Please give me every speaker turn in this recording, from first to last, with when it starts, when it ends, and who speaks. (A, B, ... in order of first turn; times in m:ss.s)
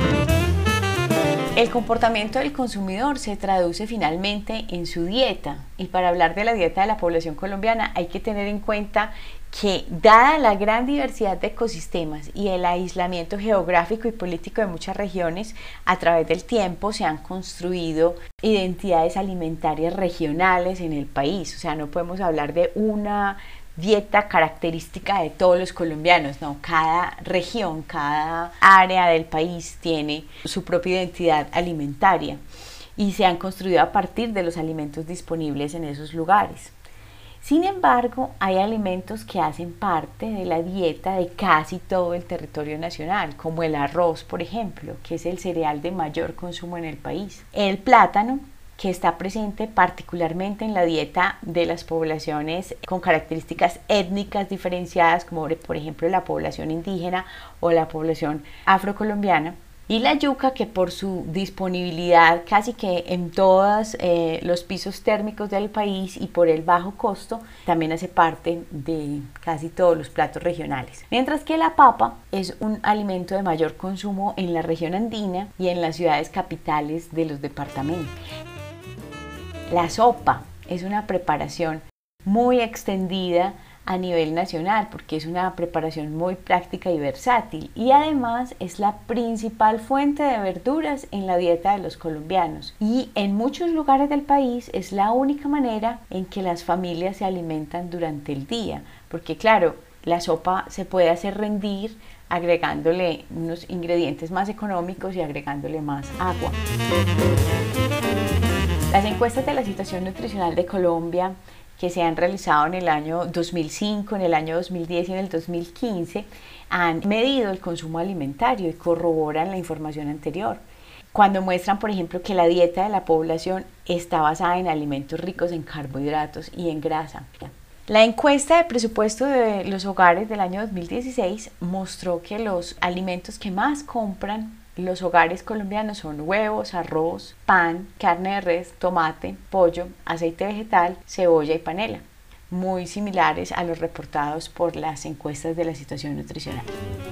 0:01.6-0:32.4 A
0:33.0-0:36.7 A
0:37.4-1:18.1 A
1:19.7-1:46.6 A
1:48.9-2:00.6 A
2:01.1-2:26.7 A